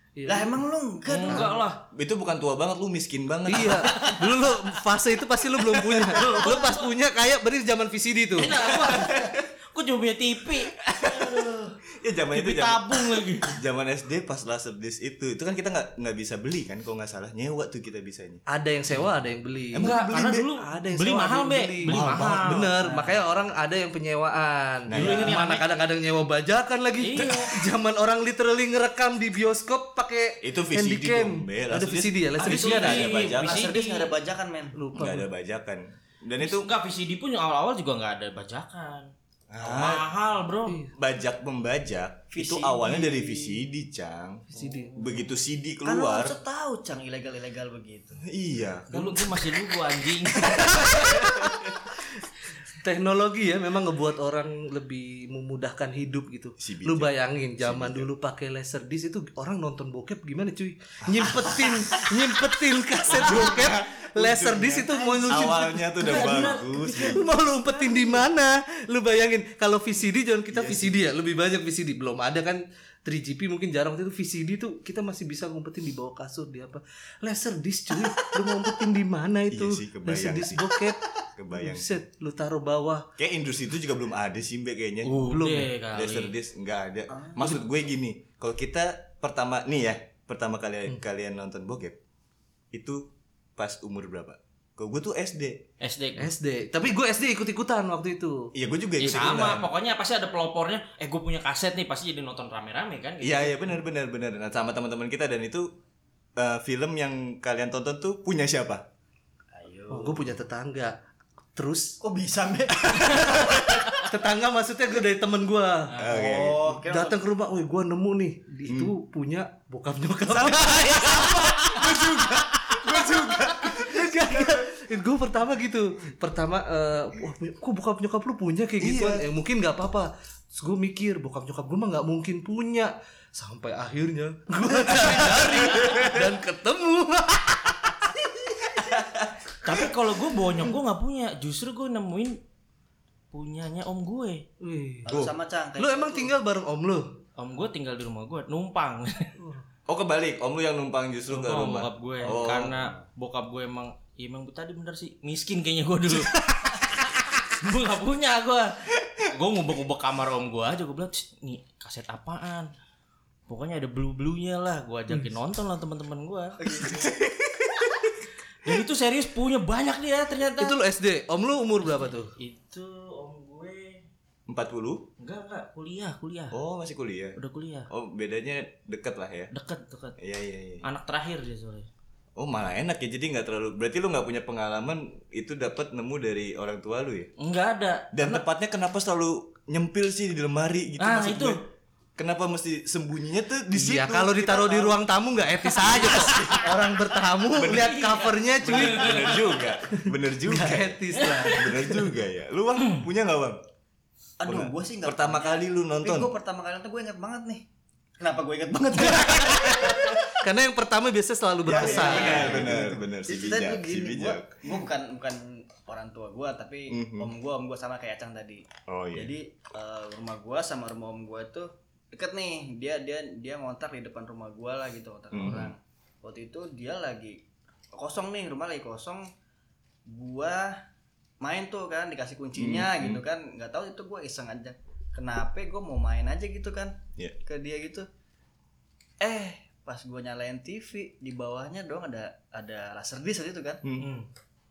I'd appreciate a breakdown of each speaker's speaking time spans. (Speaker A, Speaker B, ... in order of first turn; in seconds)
Speaker A: 0.2-0.6, 1.3-1.6, 3.5-8.6, 18.5-20.0, 20.6-33.0, 34.7-35.3, 44.5-45.0, 52.8-66.3, 66.9-81.0, 81.6-83.1, 85.2-85.7, 96.2-98.5, 109.9-111.0, 111.5-112.0, 114.0-116.0, 116.8-121.5, 123.6-138.2, 144.6-145.1, 145.8-147.2, 170.6-172.3, 193.7-199.3, 200.0-202.1, 210.2-212.9
Speaker B: 0.3-1.6, 32.4-34.8, 42.3-43.6, 45.9-48.2, 65.0-65.8, 67.7-68.2, 87.1-87.6, 109.5-110.3, 112.0-113.8, 116.1-117.2, 145.1-146.3, 152.2-153.0, 166.6-167.1, 204.4-207.7, 208.2-210.3, 211.7-227.4, 227.9-229.3, 230.1-230.8, 231.4-238.1, 239.2-243.8
Speaker C: 1.1-1.8, 3.7-4.6, 6.1-6.9, 8.4-11.8, 12.3-13.6, 19.8-23.1, 24.9-25.7, 27.0-27.5, 32.4-34.1, 36.4-39.1, 39.6-40.8, 48.9-51.3, 66.0-67.2, 85.0-86.3, 95.8-96.3, 99.0-103.7, 115.9-116.2, 121.2-121.4, 139.6-142.4, 143.3-144.4, 147.4-149.3, 151.3-162.7, 163.5-166.6, 168.6-170.8, 171.9-174.1, 175.2-176.6, 177.4-177.9, 179.5-180.2, 180.8-181.9, 187.4-188.4, 191.0-191.6, 196.1-196.6, 197.6-199.7, 201.2-201.7, 244.0-244.3
Speaker D: 1.9-4.1, 5.7-6.5, 8.6-9.4, 10.8-18.4, 19.7-20.5, 21.9-22.6, 24.9-25.4, 27.1-27.5, 30.4-33.7, 35.0-36.7, 39.5-40.1, 41.0-46.4, 48.2-49.6, 50.3-51.8, 56.6-58.1, 61.1-61.3, 63.1-67.2, 70.5-71.0, 79.5-80.8, 81.3-82.0, 83.2-85.3, 85.9-92.0, 92.7-95.6, 98.5-99.7, 103.2-105.7, 106.4-108.9, 112.9-113.7, 116.0-116.7, 118.7-118.9, 120.3-124.7, 128.8-129.3, 135.7-136.2, 138.8-139.8, 145.1-145.3, 149.9-152.8, 166.8-168.1, 174.5-175.1, 176.5-177.4, 177.9-179.5, 180.2-180.9, 182.4-187.3, 188.1-191.6, 192.2-195.0, 195.7-196.8, 197.6-198.0, 198.6-203.6, 204.4-206.3, 209.5-210.1, 211.7-214.7, 216.9-217.3, 218.9-219.3, 225.3-225.7, 232.6-233.2, 243.8-244.1